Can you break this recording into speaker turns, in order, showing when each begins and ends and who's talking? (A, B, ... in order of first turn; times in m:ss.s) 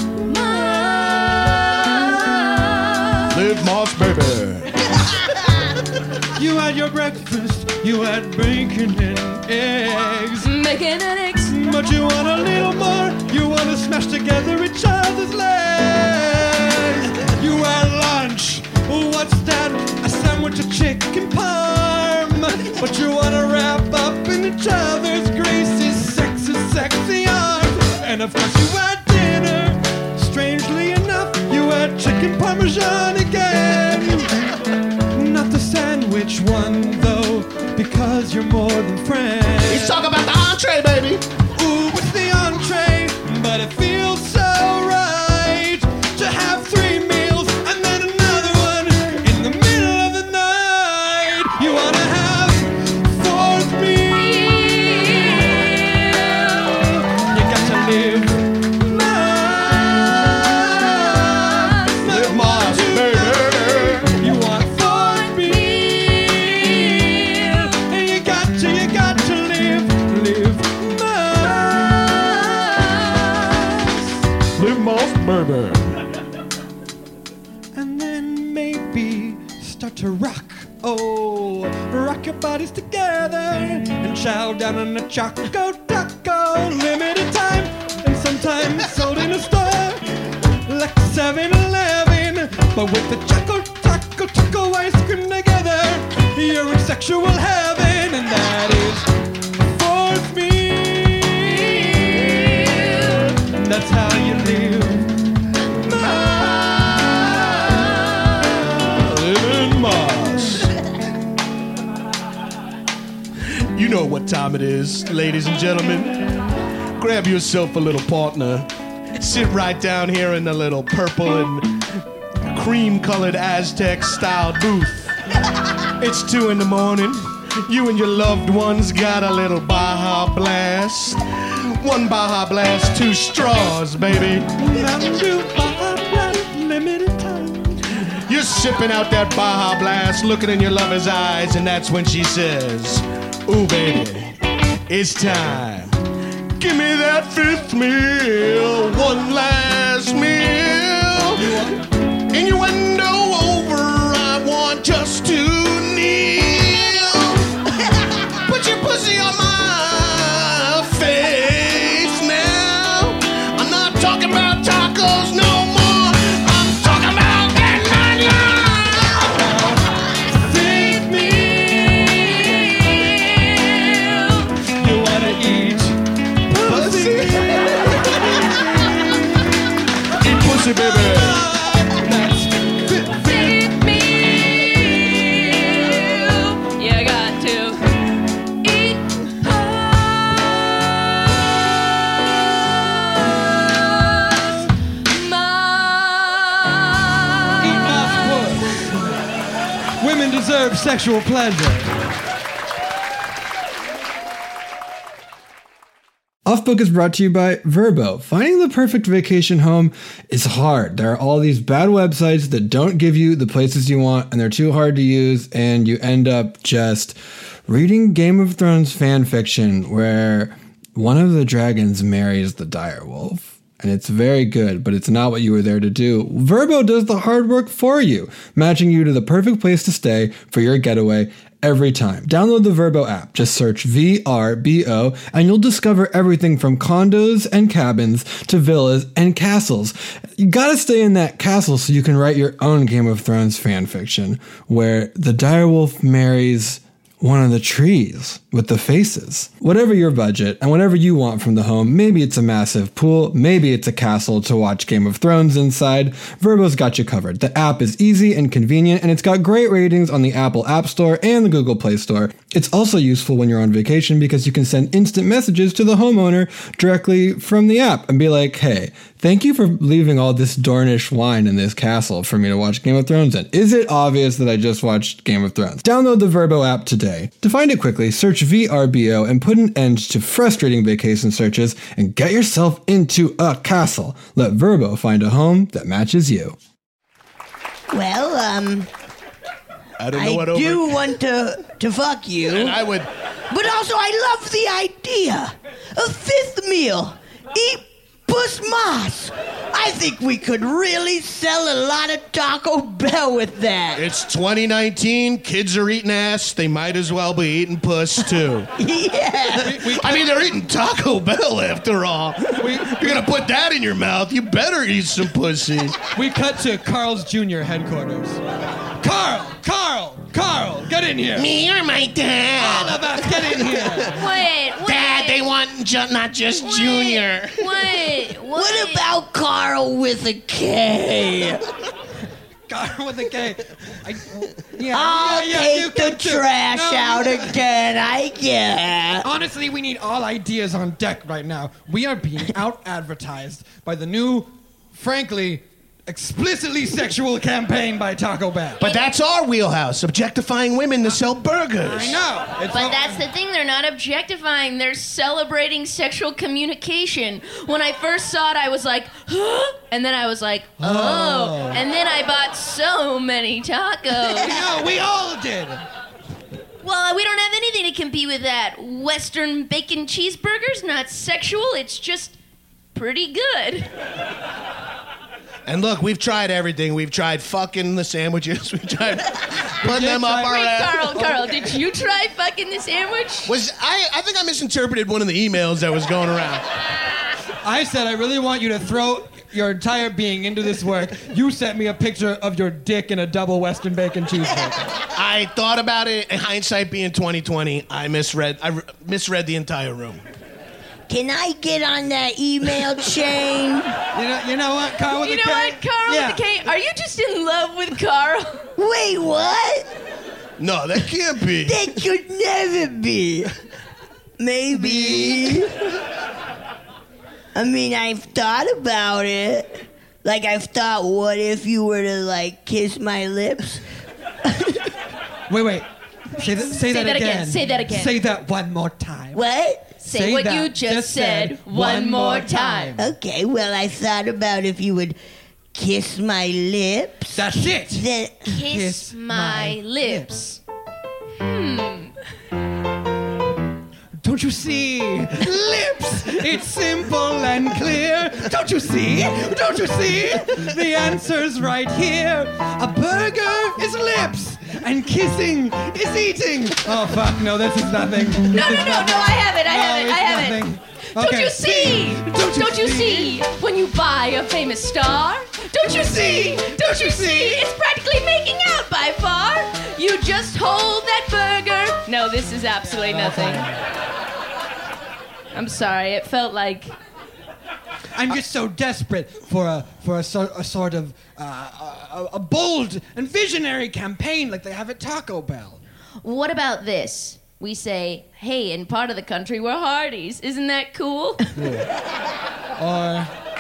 0:00.2-0:03.3 A
0:03.3-0:04.7 B
0:06.4-0:10.5 C
0:10.4-0:11.6 A
0:11.5-0:34.4 C
0:35.1-0:40.1 C
0:39.6-0:41.3 B
0:41.6-0:56.2 C
0:54.2-0:56.9 A
0:56.8-1:14.2 C
1:01.4-1:01.9 A
1:02.1-1:04.2 B
1:05.2-1:07.6 A
1:14.6-1:15.9 B
1:17.7-1:39.1 C
1:39.6-1:42.9 C
1:42.7-1:43.2 A
1:43.5-1:45.2 C
1:45.8-1:50.7 B
1:53.7-1:56.2 B
1:57.0-2:01.9 B
2:02.5-2:05.2 B
2:06.0-2:14.5 B
2:14.6-2:17.8 C
2:18.3-2:24.4 B
2:24.9-2:26.0 B
2:26.6-2:31.6 B
2:31.4-2:31.8 C
2:32.3-2:37.6 B
2:38.3-2:49.4 B
2:49.2-2:53.2 C
2:51.2-2:53.3 A
2:53.8-2:54.5 A
2:54.7-2:59.7 C
2:56.6-2:59.1 B
3:00.2-3:01.5 B
3:00.4-3:05.0 C
3:03.2-3:07.8 A
3:08.6-3:18.7 A
3:17.6-3:19.1 C
3:20.0-3:21.9 C
3:26.5-4:46.6 D
4:47.9-4:48.9 E
4:50.0-4:51.0 B
4:50.1-4:52.8 E
4:52.5-4:53.1 B
4:53.5-5:04.0 E
5:04.0-5:08.7 B
5:08.8-5:09.8 E
5:09.6-5:16.0 B
5:09.6-5:10.3 C
5:12.6-5:13.2 C
5:16.1-5:18.4 C
5:19.0-5:21.5 C
5:21.4-5:24.2 B
5:22.6-5:24.2 C
5:24.1-5:25.4 A
5:24.8-5:27.7 B
5:26.6-5:29.0 A
5:28.5-5:31.6 E
5:32.7-5:37.6 C
5:34.9-5:39.3 E
5:39.2-5:48.8 C
5:48.8-5:52.2 B
5:51.8-5:53.2 C
5:52.7-6:04.6 A
6:00.8-6:01.8 C
6:04.3-6:05.8 C
6:06.8-6:12.4 A
6:12.9-6:13.9 A
6:15.7-6:21.1 B
6:19.8-6:21.8 C
6:20.4-6:23.5 A
6:23.5-6:26.7 B
6:27.6-6:34.9 C
6:35.1-6:40.2 B
6:41.1-6:44.0 E
6:44.1-6:46.4 C
6:45.2-6:48.7 A
6:48.8-6:49.9 E
6:50.6-6:51.9 B
6:51.6-6:53.5 E
6:54.4-6:55.8 E
6:54.7-6:55.6 C
6:57.6-7:03.8 E
7:04.4-7:04.8 E
7:05.5-7:09.4 C
7:06.6-7:08.1 A
7:09.3-7:09.9 E
7:10.0-7:13.0 A
7:10.1-7:13.1 C
7:13.0-7:15.2 E
7:15.7-7:18.6 E
7:17.3-7:20.3 C
7:18.5-7:20.6 A
7:21.4-7:22.1 A
7:24.2-7:43.4 C
7:38.5-7:53.7 A
7:45.8-7:47.6 C
7:52.8-7:53.8 C
7:55.5-7:56.9 A
7:58.2-8:05.8 C
8:06.2-8:11.4 A
8:11.6-8:11.9 C
8:12.8-8:13.3 C